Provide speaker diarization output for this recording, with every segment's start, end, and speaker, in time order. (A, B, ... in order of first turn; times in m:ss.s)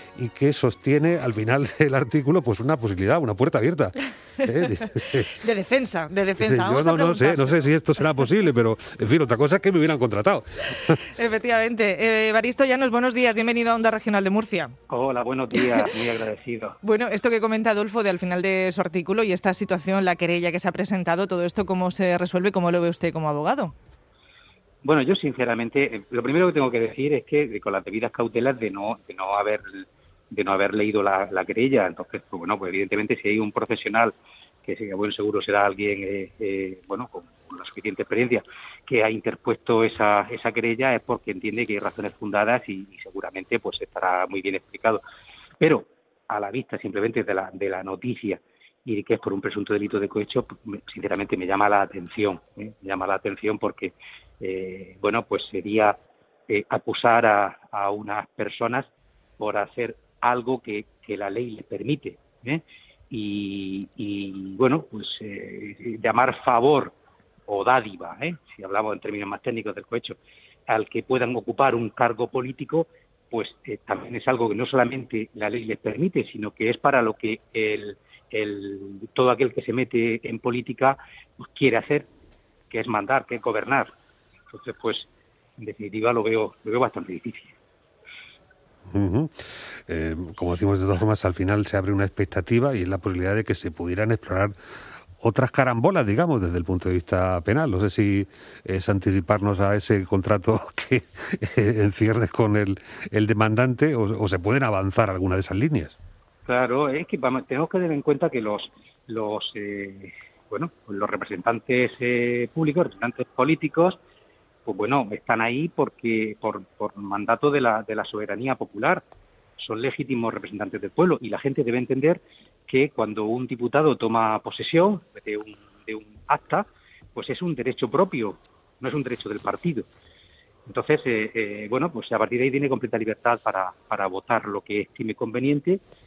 0:00.2-0:05.4 A
0:05.0-0:07.7 B
0:06.4-0:11.0 A
0:11.2-0:14.8 B
0:14.9-0:16.8 C
0:15.5-0:15.9 B
0:16.8-0:23.7 B
0:24.8-0:45.0 C
0:45.6-1:07.0 C
1:07.5-1:22.1 C
1:22.7-1:23.9 C
1:24.5-1:27.6 C
1:28.9-1:29.3 A
1:29.9-1:34.5 A
1:35.2-1:46.0 A
1:46.4-1:54.0 C
1:54.6-1:59.0 C
1:59.6-2:09.9 C
2:10.7-2:15.8 C